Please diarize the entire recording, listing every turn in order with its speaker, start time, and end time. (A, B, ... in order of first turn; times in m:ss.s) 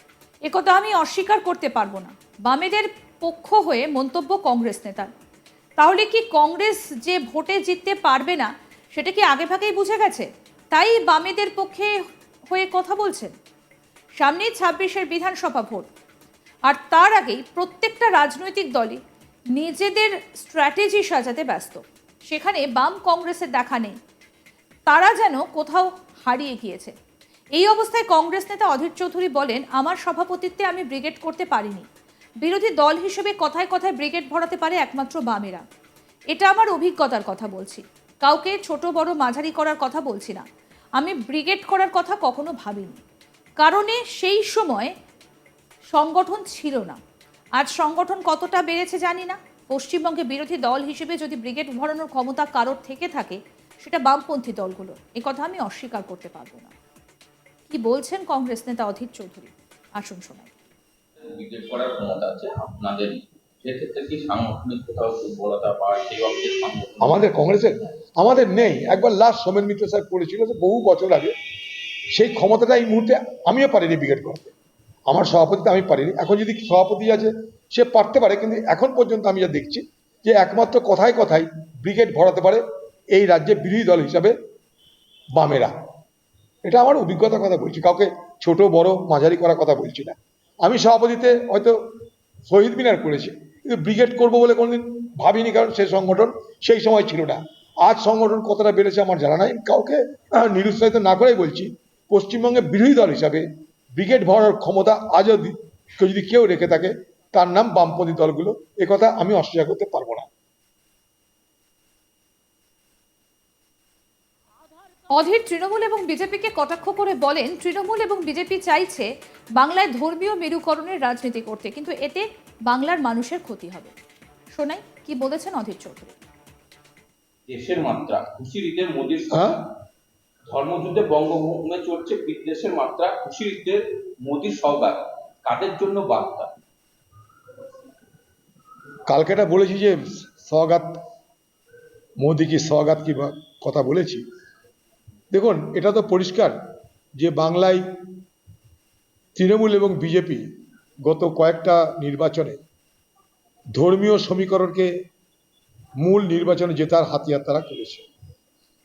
0:00.5-0:05.1 A
0:05.8-0:11.9 A
0:12.5-0:13.3 A
0:14.2-0:15.9 A
0:16.7-0:19.0 A
0:19.5-0:23.9 A
0:24.9-0:26.9 A
0:27.5-0:31.8 A
0:32.4-0:35.6 A
0:36.3-0:40.4 A
0:41.0-0:43.0 A
0:43.6-0:44.9 A
0:45.9-0:47.0 A
0:47.6-0:56.7 A
0:57.7-1:00.5 A
1:01.2-1:07.2 B
1:07.0-1:11.3 C
1:12.1-1:14.5 C
1:15.1-1:24.3 C
1:25.4-1:25.7 C
1:26.6-1:31.8 C
1:32.5-1:43.4 C
1:44.0-1:50.3 C
1:55.1-2:03.9 A
2:04.5-2:06.2 A
2:07.5-2:09.6 B
2:09.3-2:09.6 C
2:10.5-2:16.5 B
2:19.1-2:21.0 C
2:22.2-2:24.2 C
2:25.3-2:26.5 C
2:27.2-2:27.8 C
2:29.4-2:30.4 C
2:31.0-2:32.6 C
2:33.8-2:34.9 C
2:36.0-2:38.0 C